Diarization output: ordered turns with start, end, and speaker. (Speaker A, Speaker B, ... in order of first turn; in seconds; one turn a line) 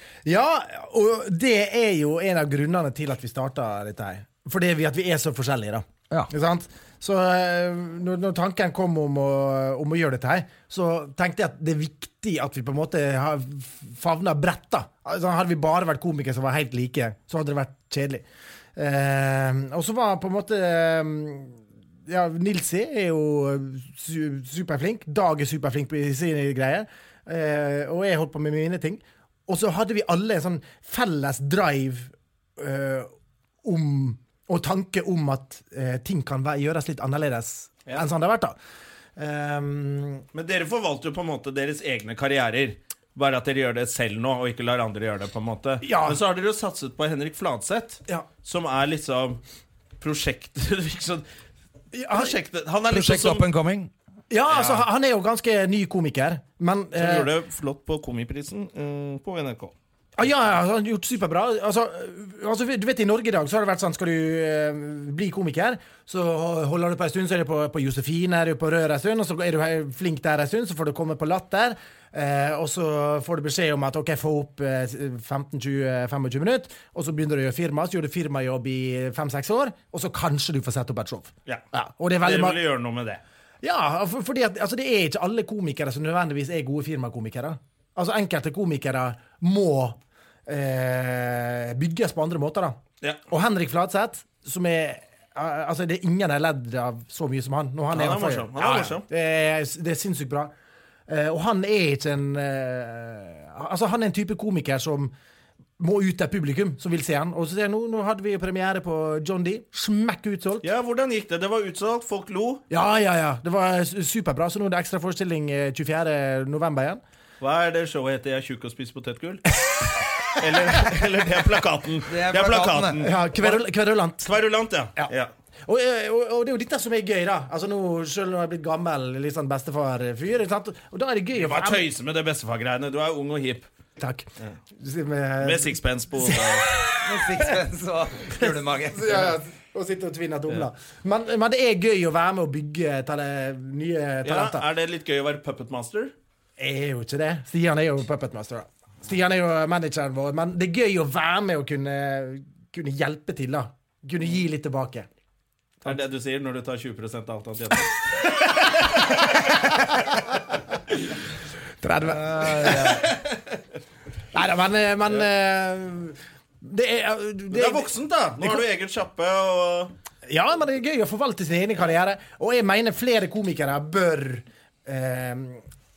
Speaker A: 0.2-18.2
Speaker A: 18.8-33.1
Speaker A: 33.6-38.5
Speaker A: 39.2-40.2
Speaker B: 40.3-49.4
Speaker A: 45.8-46.2
Speaker B: 50.0-51.2
Speaker A: 51.9-52.4
Speaker B: 52.1-53.5
Speaker C: 52.9-53.9
Speaker A: 54.3-57.3
Speaker B: 54.5-54.9
Speaker B: 56.9-59.7
Speaker A: 60.2-82.6
Speaker B: 82.2-83.2
Speaker A: 83.6-92.8
Speaker A: 93.3-100.5
Speaker B: 97.9-99.0
Speaker A: 101.1-105.1
Speaker A: 105.8-110.6
Speaker B: 110.6-112.6
Speaker A: 112.7-117.0
Speaker B: 117.4-119.4
Speaker B: 120.3-123.6
Speaker C: 122.1-123.0
Speaker A: 123.0-124.3
Speaker B: 124.2-125.3
Speaker A: 125.7-131.8
Speaker B: 131.3-133.7
Speaker A: 134.0-137.6
Speaker B: 135.4-136.7
Speaker C: 137.0-139.3
Speaker A: 138.4-144.6
Speaker B: 144.2-146.1
Speaker A: 146.6-155.1
Speaker B: 155.8-160.0
Speaker A: 158.8-160.0
Speaker A: 161.8-163.1
Speaker C: 162.1-163.1
Speaker B: 162.6-163.6
Speaker A: 164.3-168.6
Speaker B: 167.5-169.9
Speaker A: 170.2-175.6